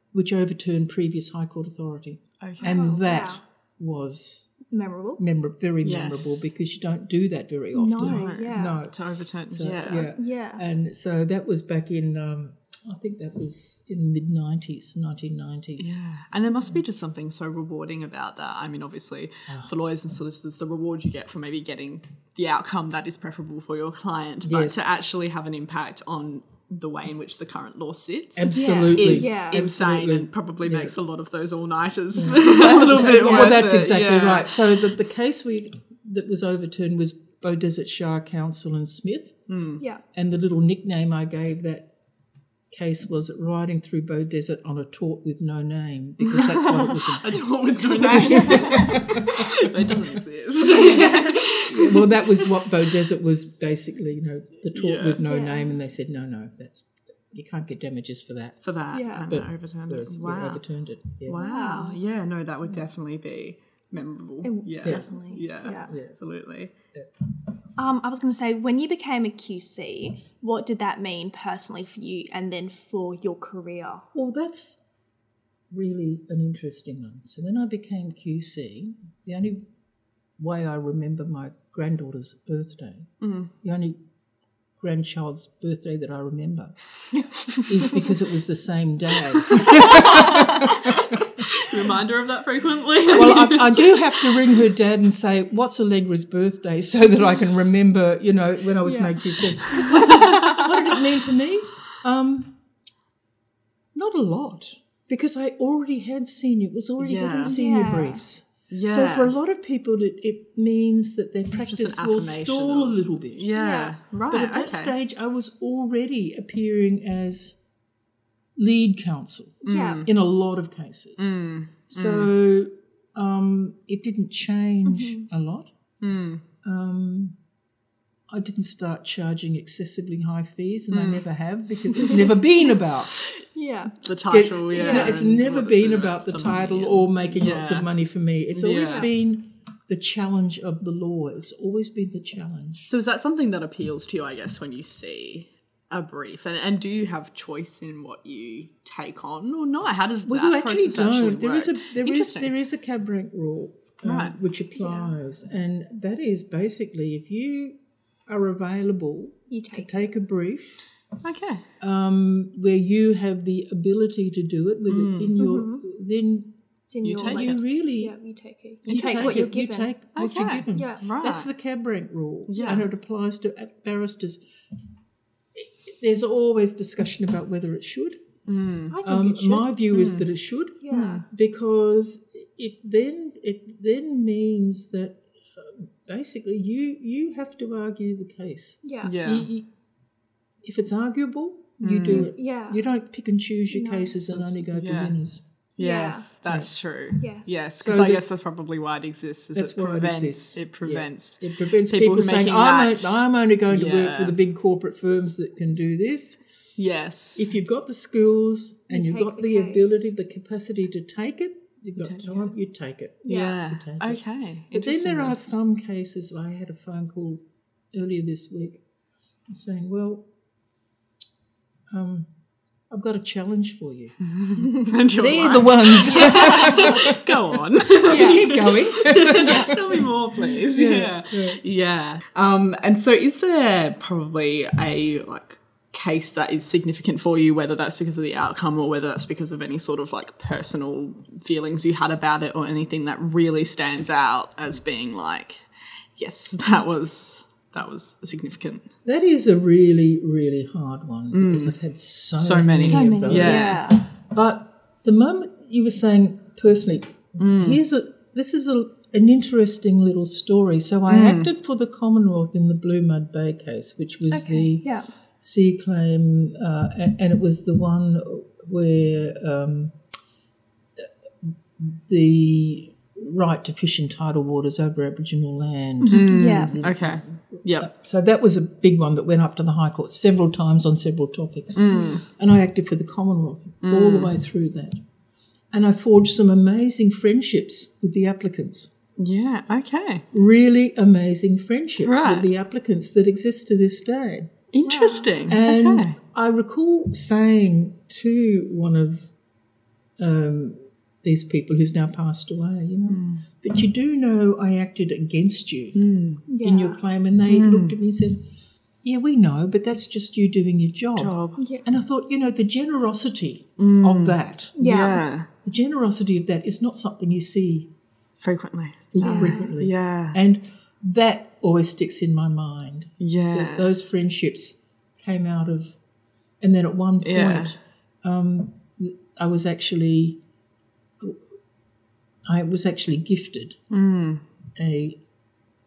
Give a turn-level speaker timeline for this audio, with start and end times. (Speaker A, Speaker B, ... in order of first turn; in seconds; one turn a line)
Speaker A: 0.1-4.5
Speaker B: 2.4-2.8
Speaker C: 2.6-3.4
Speaker C: 4.7-5.2
Speaker A: 5.2-9.0
Speaker B: 5.8-6.5
Speaker C: 7.7-8.8
Speaker B: 8.0-10.1
Speaker A: 9.5-16.0
Speaker C: 10.1-10.6
Speaker B: 15.8-34.8
Speaker A: 24.4-24.8
Speaker A: 28.4-30.9
Speaker C: 28.5-29.6
Speaker A: 32.1-39.4
Speaker B: 39.5-39.8
Speaker A: 40.1-41.9
Speaker A: 42.7-49.9
Speaker B: 46.2-52.5
Speaker C: 50.8-51.2
Speaker A: 50.9-58.6
Speaker B: 54.7-55.2
Speaker C: 55.2-55.8
Speaker B: 58.6-60.6
Speaker C: 58.9-59.3
Speaker A: 59.3-61.5
Speaker B: 61.3-66.7
Speaker C: 61.4-62.0
Speaker C: 64.4-65.9
Speaker A: 65.7-66.2
Speaker C: 67.8-74.1
Speaker A: 74.1-74.8
Speaker A: 75.7-79.7
Speaker A: 80.4-84.0
Speaker B: 83.2-83.5
Speaker A: 84.8-86.8
Speaker A: 87.5-91.4
Speaker B: 89.4-94.6
Speaker A: 93.1-102.6
Speaker C: 98.8-100.8
Speaker B: 99.6-100.7
Speaker A: 103.9-113.5
Speaker B: 107.0-107.6
Speaker C: 107.4-108.2
Speaker B: 108.7-109.3
Speaker B: 111.6-115.0
Speaker C: 113.6-114.0
Speaker A: 114.3-117.6
Speaker A: 118.6-125.7
Speaker B: 119.6-120.1
Speaker C: 119.7-120.0
Speaker B: 121.2-122.3
Speaker C: 124.8-125.3
Speaker B: 126.0-126.4
Speaker A: 126.6-127.4
Speaker A: 128.3-133.3
Speaker B: 130.9-131.2
Speaker C: 133.5-134.0
Speaker B: 134.0-137.9
Speaker A: 134.3-142.9
Speaker C: 134.7-135.2
Speaker B: 138.5-139.1
Speaker B: 142.8-152.5
Speaker A: 150.3-160.8
Speaker B: 154.0-154.4
Speaker C: 154.8-155.2
Speaker C: 159.5-160.1
Speaker B: 161.2-161.7
Speaker A: 161.8-166.5
Speaker B: 164.9-165.3
Speaker C: 165.4-165.8
Speaker C: 166.9-169.9
Speaker B: 167.0-167.6
Speaker A: 167.2-168.1
Speaker B: 168.9-169.4
Speaker A: 168.9-174.4
Speaker B: 170.2-171.5
Speaker C: 170.8-171.0
Speaker B: 172.5-172.9
Speaker A: 175.6-178.2
Speaker B: 178.5-178.9
Speaker C: 178.9-179.7
Speaker A: 179.0-189.7
Speaker B: 179.9-180.3
Speaker C: 180.8-181.3
Speaker B: 180.9-181.2
Speaker C: 188.8-189.1
Speaker B: 189.0-189.5
Speaker A: 190.6-195.4
Speaker B: 191.8-192.3
Speaker C: 192.1-192.8
Speaker C: 193.7-194.1
Speaker B: 194.3-195.2
Speaker B: 195.8-203.1
Speaker C: 195.8-196.3
Speaker C: 197.2-197.5
Speaker A: 197.7-198.2
Speaker A: 199.6-206.4
Speaker B: 203.7-204.4
Speaker B: 206.8-207.5
Speaker A: 207.4-218.8
Speaker C: 208.9-210.1
Speaker B: 212.0-212.5
Speaker C: 213.2-213.6
Speaker B: 213.3-215.4
Speaker A: 219.5-220.3
Speaker A: 221.9-222.3
Speaker A: 222.9-224.2
Speaker B: 224.2-248.9
Speaker A: 225.1-231.6
Speaker C: 226.4-226.8
Speaker C: 228.0-228.6
Speaker C: 229.4-229.8
Speaker A: 249.1-270.0
Speaker B: 251.3-251.7
Speaker B: 252.4-253.8
Speaker C: 252.8-254.0
Speaker B: 257.4-257.8
Speaker B: 261.1-261.5
Speaker C: 264.3-265.1
Speaker A: 271.0-285.0
Speaker C: 276.0-276.8
Speaker B: 276.1-277.9
Speaker B: 281.8-282.2
Speaker B: 283.8-284.3
Speaker A: 285.7-288.9
Speaker B: 289.2-290.3
Speaker A: 290.3-294.5
Speaker B: 292.0-292.5
Speaker B: 294.7-296.2
Speaker C: 294.9-295.4
Speaker A: 295.5-299.3
Speaker A: 300.2-306.0
Speaker B: 303.1-303.4
Speaker B: 305.9-306.4
Speaker C: 306.5-307.0
Speaker A: 306.6-308.5
Speaker B: 307.5-307.9
Speaker A: 309.0-314.8
Speaker B: 311.2-311.6
Speaker C: 311.6-311.9
Speaker B: 313.8-315.5
Speaker C: 314.8-315.3
Speaker A: 315.6-317.9
Speaker B: 318.4-320.4
Speaker A: 319.1-326.0
Speaker C: 319.2-319.7
Speaker B: 323.2-323.9
Speaker A: 326.6-330.4
Speaker B: 327.2-327.8
Speaker A: 332.5-333.8
Speaker B: 333.9-334.4
Speaker A: 334.8-335.2